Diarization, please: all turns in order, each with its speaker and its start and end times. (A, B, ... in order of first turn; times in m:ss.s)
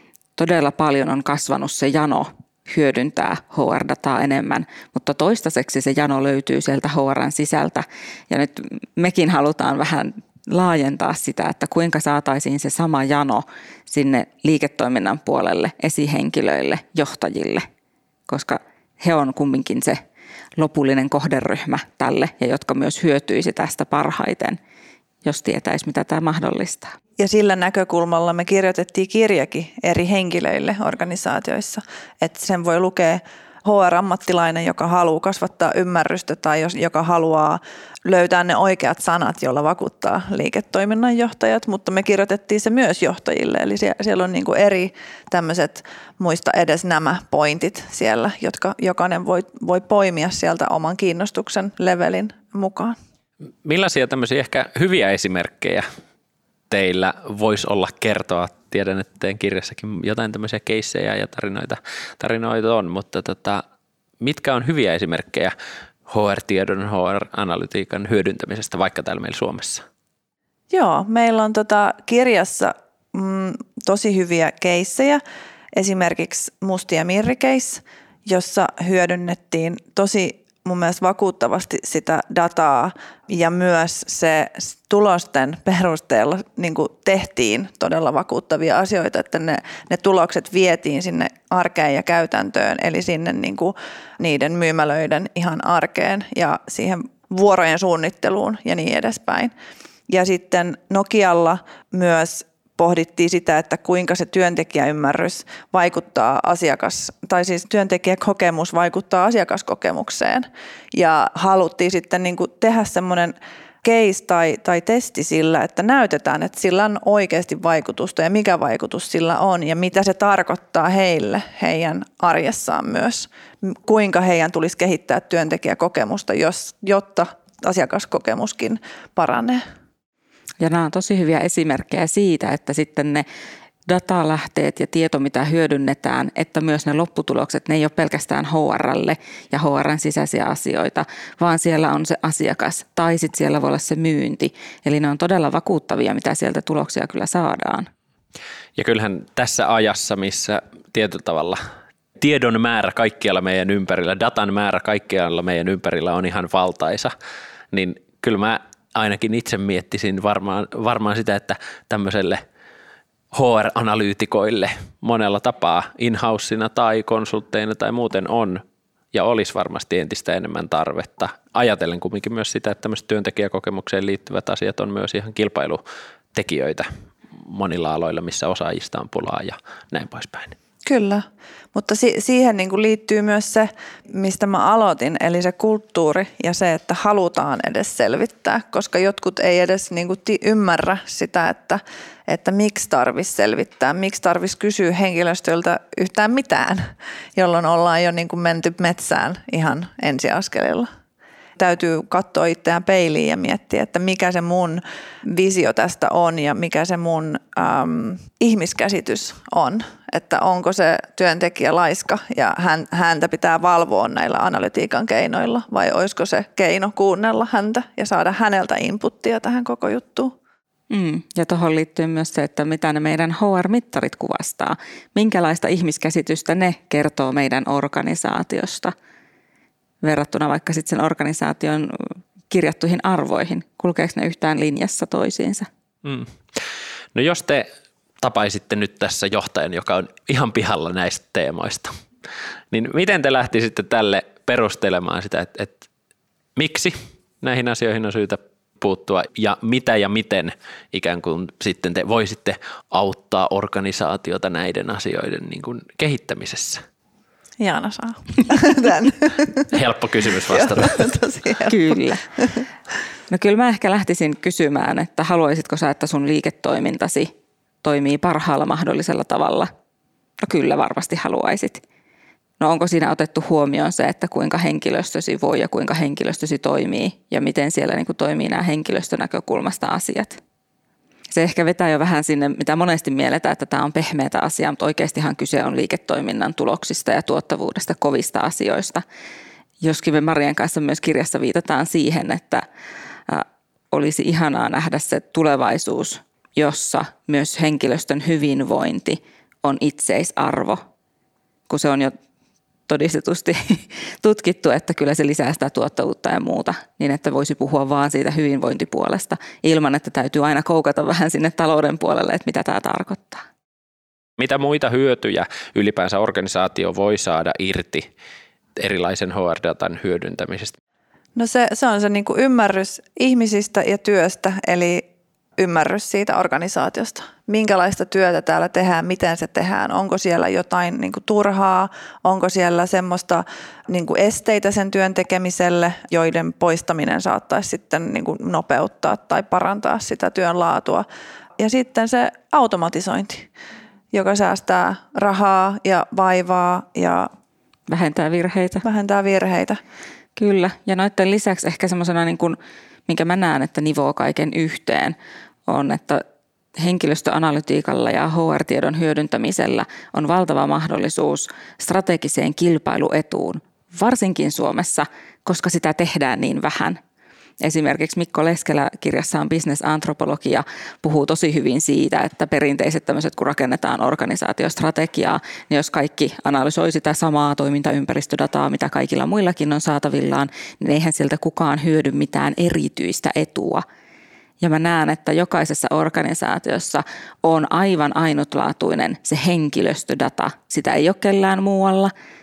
0:00.4-0:17.7 A
0:18.3-0:20.0 A
0:20.6-0:24.6 A
0:25.2-0:27.0 A
0:27.2-0:53.0 B
0:53.6-0:55.9 C
0:56.7-1:03.6 C
1:04.2-1:05.5 C
1:06.1-1:09.8 C
1:10.7-1:15.2 B
1:15.7-1:39.5 B
1:40.1-2:09.6 B
2:10.6-2:13.2 A
2:13.9-2:27.9 A
2:28.8-2:31.6 C
2:32.2-2:37.1 C
2:37.7-2:42.4 C
2:43.3-2:48.6 C
2:49.1-2:55.8 C
2:56.3-2:56.9 C
2:57.4-3:00.6 C
3:00.8-3:20.9 B
3:21.6-3:40.3 B
3:40.9-3:48.9 A
3:50.0-3:55.7 A
3:56.0-3:56.6 C
3:57.1-3:57.7 C
3:58.2-4:01.9 C
4:02.7-4:05.8 C
4:06.6-4:16.8 C
4:17.6-4:19.7 B
4:19.7-4:21.1 C
4:20.5-4:22.6 B
4:21.7-4:22.2 A
4:23.3-4:27.3 A
4:27.8-4:29.7 A
4:30.4-4:31.8 A
4:32.6-4:40.4 A
4:41.3-4:49.0 A
4:49.8-4:52.6 A
4:53.3-5:00.8 A
5:01.7-5:02.1 A
5:02.9-5:13.4 A
5:14.4-5:18.1 C
5:18.8-5:20.8 C
5:21.4-5:25.0 B
5:25.6-5:41.0 B
5:41.6-5:43.5 B
5:44.1-5:47.3 B
5:47.9-5:48.8 A
5:48.8-5:49.8 B
5:50.4-5:55.2 A
5:55.7-5:56.2 A
5:56.8-6:07.0 A
6:07.6-6:23.8 A
6:24.6-6:32.1 A